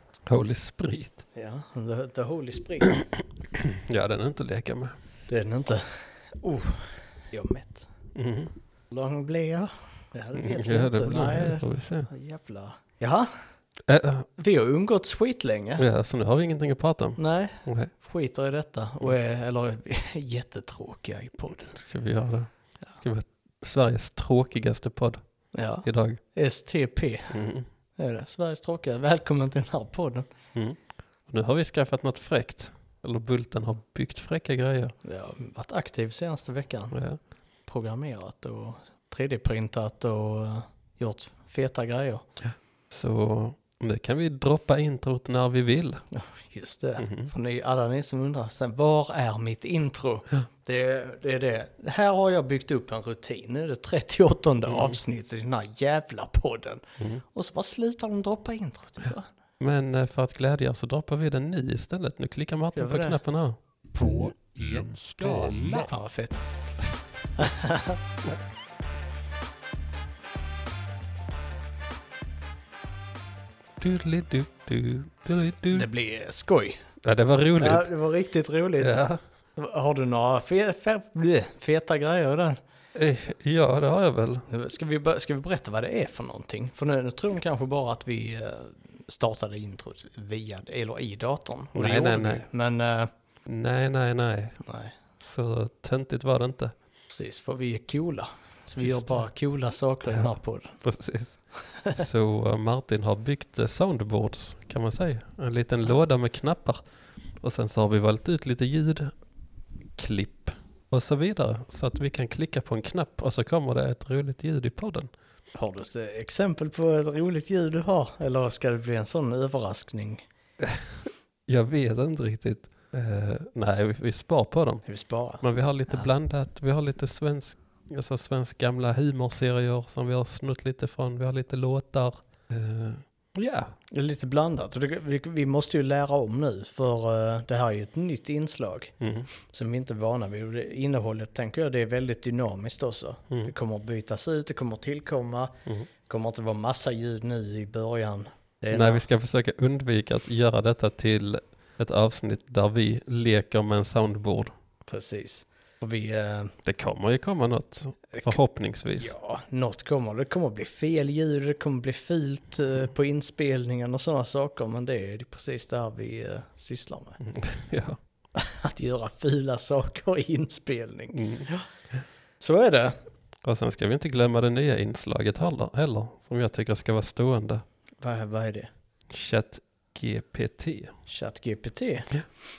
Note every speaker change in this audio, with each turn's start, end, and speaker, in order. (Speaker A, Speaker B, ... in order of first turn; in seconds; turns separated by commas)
Speaker A: 0.3-1.2, Speaker B: 1.4-3.0, Speaker A: 2.8-4.9, Speaker B: 5.3-7.9, Speaker A: 8.2-8.5, Speaker B: 8.9-13.4, Speaker A: 10.4-12.1, Speaker A: 13.9-14.3, Speaker B: 14.4-15.8, Speaker A: 15.8-17.9, Speaker B: 17.2-21.8, Speaker A: 21.7-25.2, Speaker B: 25.5-27.4, Speaker A: 25.8-26.2, Speaker A: 27.3-27.7, Speaker B: 28.0-30.3, Speaker A: 30.5-35.0, Speaker B: 35.0-37.0, Speaker A: 36.9-37.2, Speaker B: 37.7-42.2, Speaker A: 42.4-46.0, Speaker B: 46.1-56.8, Speaker A: 47.0-47.3, Speaker A: 54.7-55.0, Speaker B: 57.3-59.3, Speaker A: 59.1-65.9, Speaker B: 62.8-63.2, Speaker B: 65.7-66.5, Speaker B: 67.4-68.3, Speaker A: 73.8-75.9, Speaker B: 75.7-76.8, Speaker A: 77.0-77.9, Speaker B: 77.6-82.6, Speaker A: 78.8-79.2, Speaker A: 83.0-84.5, Speaker B: 84.5-93.1, Speaker A: 91.8-92.5, Speaker A: 93.5-94.6, Speaker B: 94.6-95.0, Speaker A: 95.2-96.7, Speaker B: 97.1-100.8, Speaker A: 98.8-99.3, Speaker A: 100.1-106.8, Speaker B: 101.7-102.0, Speaker A: 107.4-109.1, Speaker A: 110.0-115.1, Speaker B: 115.5-120.2, Speaker A: 120.6-124.8, Speaker B: 124.9-126.1, Speaker A: 125.4-133.8, Speaker B: 133.9-149.1, Speaker A: 139.0-139.3, Speaker A: 148.7-154.5, Speaker B: 154.9-156.6, Speaker A: 156.6-159.2, Speaker B: 158.1-158.4, Speaker B: 159.0-167.2, Speaker A: 167.2-168.0, Speaker B: 168.3-171.7, Speaker A: 171.1-172.0, Speaker B: 172.4-173.0, Speaker A: 173.4-177.7, Speaker B: 178.0-178.7, Speaker A: 179.1-180.9, Speaker B: 181.1-182.1